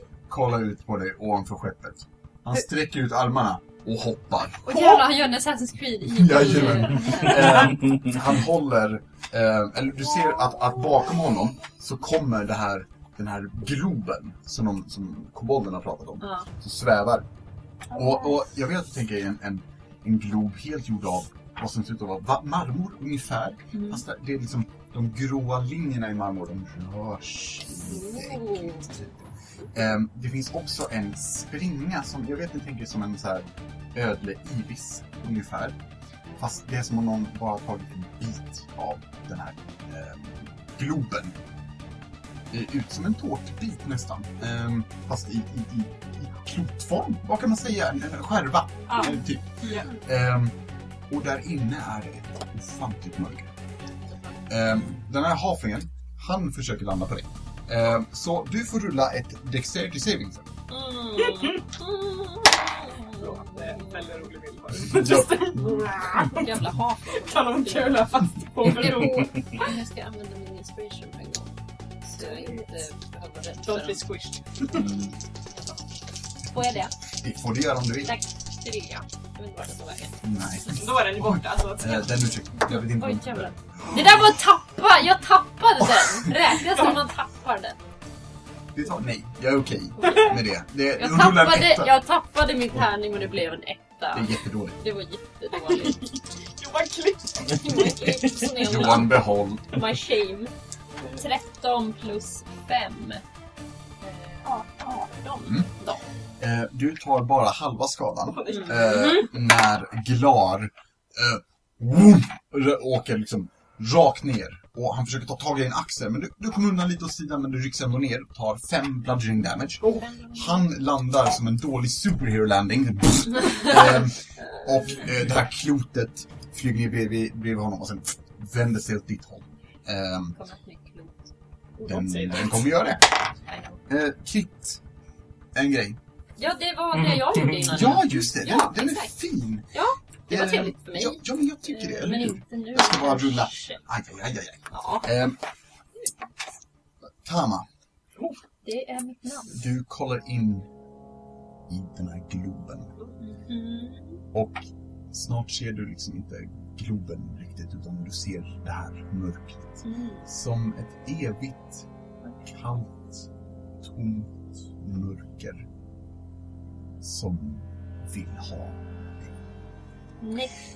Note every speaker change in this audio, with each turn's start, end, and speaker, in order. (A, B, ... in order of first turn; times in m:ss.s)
0:00.3-0:05.0 A
0:04.6-0:07.8 B
0:06.0-0:17.2 A
0:16.2-0:16.5 B
0:17.9-0:29.2 A
0:23.7-0:24.0 B
0:27.8-0:28.9 B
0:29.7-0:35.8 A
0:36.4-0:41.4 A
0:42.5-0:50.6 A
0:51.1-0:53.5 A
0:54.5-1:00.5 A
1:00.7-1:04.1 B
1:03.2-1:06.5 C
1:04.8-1:06.0 A
1:05.0-1:14.1 B
1:07.2-1:09.3 C
1:12.2-1:12.6 C
1:13.6-1:14.9 C
1:16.5-1:16.9 B
1:17.2-1:18.1 A
1:18.0-1:20.7 B
1:20.2-1:24.3 A
1:20.8-1:22.1 C
1:22.7-1:27.8 B
1:28.7-1:31.9 A
1:30.0-1:30.4 B
1:31.0-1:36.0 B
1:34.1-1:34.8 A
1:35.6-1:37.8 C
1:37.5-1:40.5 B
1:38.6-1:39.8 A
1:41.1-1:43.2 B
1:44.0-1:46.0 B
1:46.4-2:10.4 A
1:48.3-1:49.2 C
1:48.5-1:49.3 B
1:59.8-2:00.7 B
2:10.3-2:11.3 B
2:11.8-2:12.6 C
2:11.8-2:13.1 A
2:13.5-2:13.8 B
2:13.9-2:14.8 A
2:15.5-2:16.0 A
2:16.4-2:19.1 B
2:17.7-2:19.7 A
2:19.7-2:23.8 B
2:20.3-2:25.4 A
2:24.7-2:25.1 B
2:27.0-2:27.7 A
2:28.6-2:29.7 B
2:29.5-2:30.7 A
2:31.7-2:32.9 A
2:33.2-2:34.2 B
2:34.3-2:43.3 A
2:39.8-2:40.2 B
2:43.8-2:45.6 A
2:47.0-2:48.8 A
2:50.2-2:50.6 B